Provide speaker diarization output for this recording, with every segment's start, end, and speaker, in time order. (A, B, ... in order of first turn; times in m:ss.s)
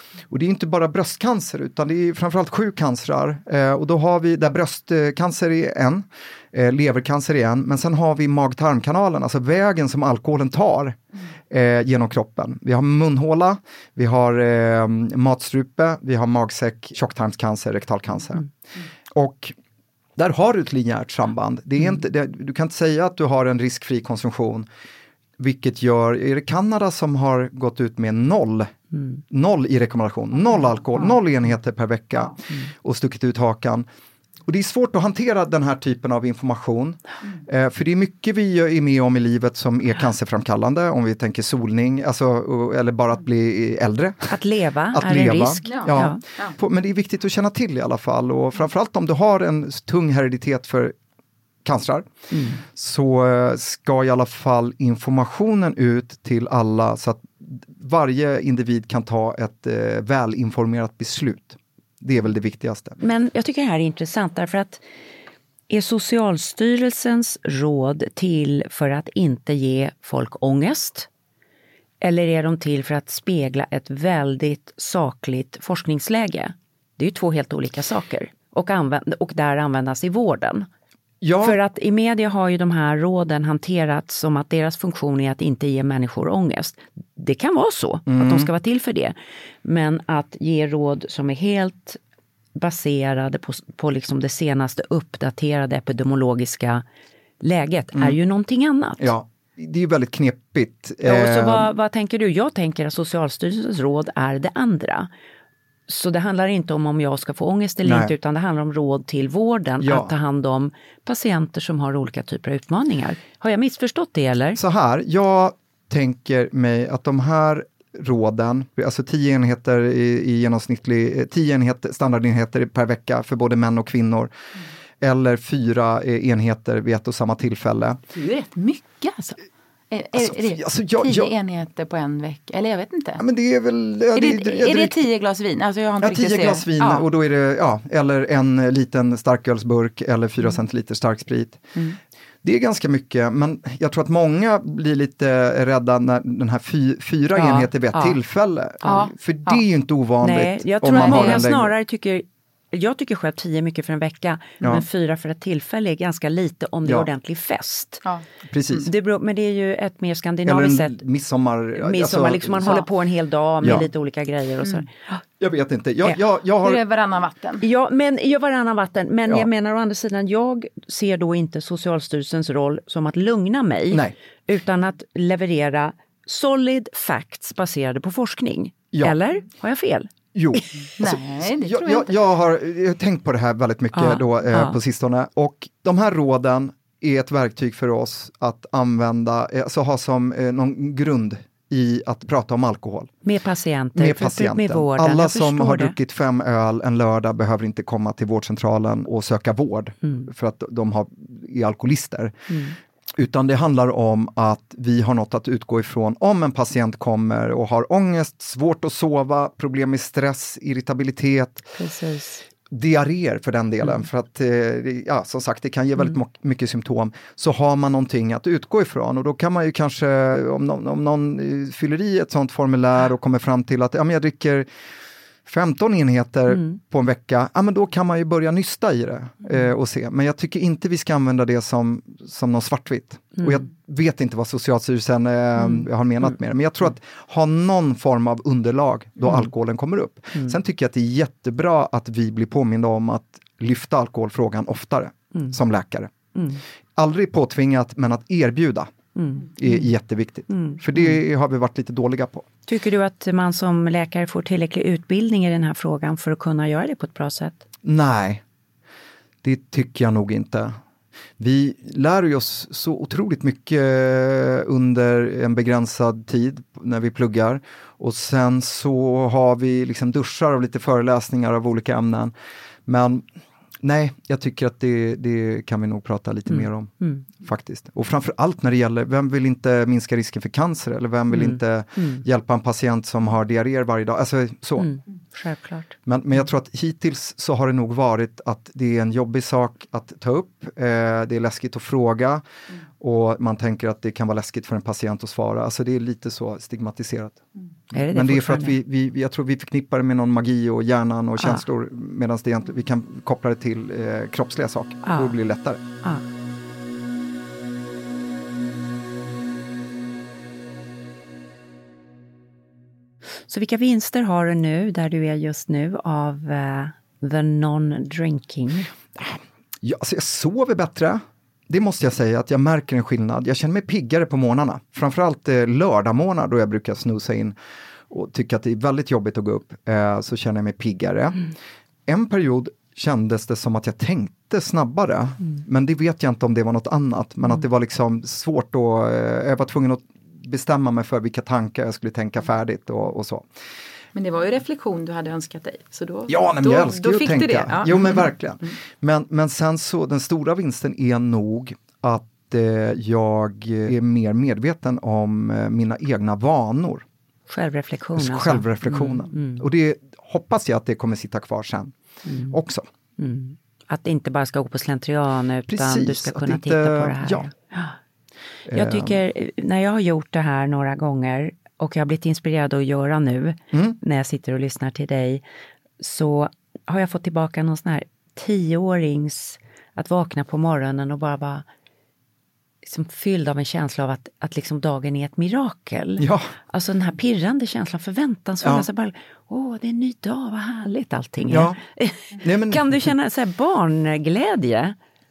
0:00.3-0:18.5 A
0:19.1-0:19.6 A
0:20.2-0:24.7 A
0:25.4-0:28.7 A
0:29.3-0:33.9 A
0:34.5-0:44.4 A
0:44.3-0:46.2 B
0:44.9-0:51.0 A
0:45.6-0:46.6 C
0:51.6-1:03.0 A
0:52.3-0:52.6 B
1:03.0-1:04.8 B
1:05.7-1:11.1 B
1:12.0-1:20.7 B
1:21.2-1:21.6 A
1:21.4-1:32.0 B
1:28.1-1:28.5 A
1:32.6-1:36.8 B
1:37.4-1:39.1 B
1:39.0-1:41.7 A
1:41.0-1:45.1 B
1:45.9-1:54.6 B
1:47.8-1:48.1 A
1:49.8-1:50.1 A
1:54.6-2:04.3 A
2:05.0-2:08.0 A
2:08.1-2:13.2 C
2:10.2-2:11.3 A
2:13.2-2:15.0 A
2:14.1-2:17.1 C
2:16.0-2:21.6 A
2:22.4-2:31.7 A
2:27.4-2:28.2 B
2:28.8-2:29.6 C
2:30.2-2:38.0 B
2:30.9-2:31.4 C
2:36.8-2:37.1 A
2:38.5-2:38.9 A
2:38.8-2:41.0 B
2:40.5-2:42.8 A
2:41.8-2:45.2 B
2:43.6-2:43.9 A
2:45.4-2:46.8 A
2:46.6-2:47.6 C
2:47.6-3:00.1 B
3:00.3-3:13.1 A
3:01.0-3:02.1 C
3:03.9-3:04.8 B
3:13.2-3:16.0 B
3:14.0-3:22.3 A
3:22.5-3:22.8 B
3:23.2-3:31.7 A
3:31.8-3:32.4 B
3:32.7-3:44.7 A
3:45.5-4:06.1 A
3:55.6-3:55.8 B
4:06.4-4:06.6 B
4:07.0-4:08.9 A
4:09.2-4:09.9 B
4:09.6-4:12.5 A
4:10.5-4:11.2 B
4:12.7-4:17.6 B
4:17.8-4:18.4 A
4:19.4-4:20.8 A
4:21.4-4:32.3 A
4:32.9-4:33.2 A
4:33.8-4:44.9 A
4:36.5-4:37.3 B
4:41.3-4:42.2 B
4:44.8-4:46.0 B
4:46.1-4:52.4 A
4:53.0-4:57.4 A
4:57.9-4:58.8 B
4:58.0-5:05.8 A
5:05.0-5:05.4 B
5:13.5-5:18.9 B
5:19.2-5:27.6 A
5:28.1-5:31.5 A
5:32.1-5:43.5 A
5:44.2-5:48.2 C
5:46.3-5:57.1 A
5:57.5-5:59.7 B
5:58.2-6:01.9 A
6:02.3-6:02.6 B
6:02.5-6:02.9 A
6:03.2-6:08.0 B
6:05.7-6:07.5 A
6:08.7-6:09.2 A
6:08.7-6:15.4 B
6:16.0-6:21.6 B
6:22.8-6:35.0 B
6:26.2-6:26.5 A
6:28.6-6:28.9 A
6:31.5-6:31.8 A
6:32.4-6:32.9 A